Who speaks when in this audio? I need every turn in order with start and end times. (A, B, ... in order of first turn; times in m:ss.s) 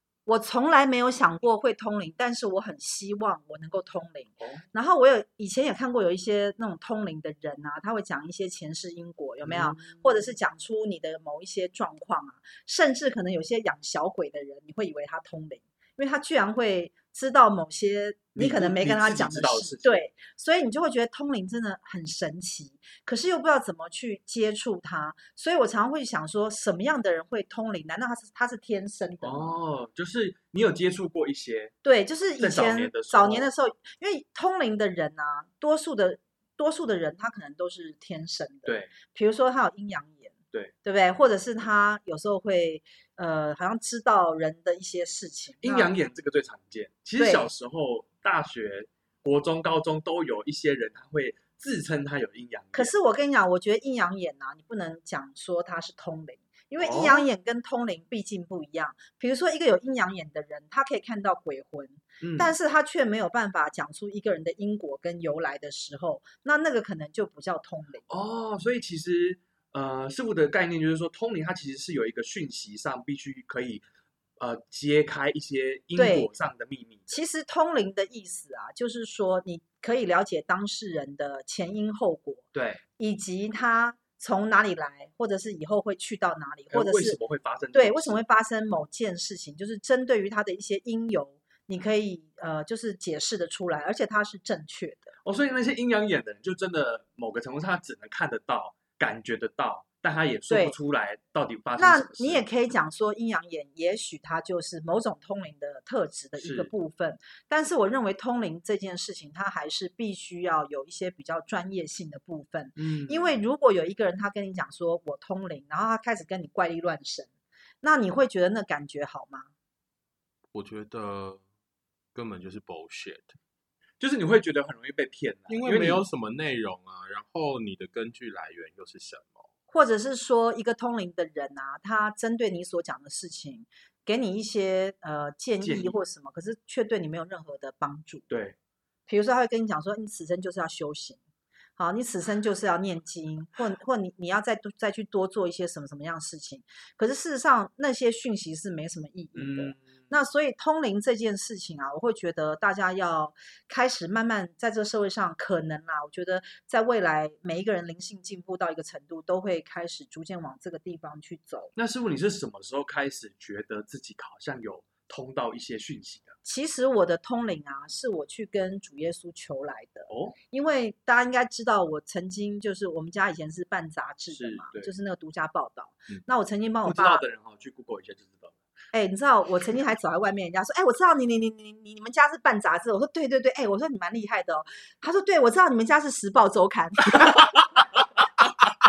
0:00.2-0:29.6 A
0:04.4-0:04.6 B
0:09.4-0:10.3 B
0:18.3-0:20.0 B
0:29.2-0:31.7 B
0:31.8-0:40.3 A
0:32.4-0:33.5 B
0:38.6-0:38.9 B
0:40.8-0:45.9 A
0:45.6-0:52.9 B
0:47.2-0:47.5 A
0:52.7-1:08.1 A
0:56.8-0:57.2 B
1:02.2-1:02.5 B
1:08.1-1:13.8 B
1:14.4-1:17.2 B
1:15.9-1:16.3 A
1:17.1-1:22.5 A
1:22.5-1:22.8 B
1:23.0-1:27.2 A
1:26.7-1:28.2 B
1:27.7-1:35.1 A
1:35.2-1:42.4 B
1:40.5-1:40.7 A
1:41.8-1:57.3 A
1:46.4-1:46.7 B
1:52.8-1:53.4 B
1:57.8-1:59.5 A
2:00.5-2:01.4 C
2:02.1-2:03.4 C
2:04.0-2:06.0 B
2:05.5-2:09.5 C
2:09.7-2:18.3 A
2:15.6-2:16.0 B
2:18.3-2:18.6 B
2:19.1-2:21.2 A
2:21.8-2:41.7 A
2:29.3-2:30.2 B
2:41.8-2:46.3 B
2:46.4-2:57.2 A
2:50.1-2:50.4 B
2:54.3-2:54.9 B
2:56.8-2:58.5 B
2:58.9-3:07.3 A
3:07.2-3:07.8 B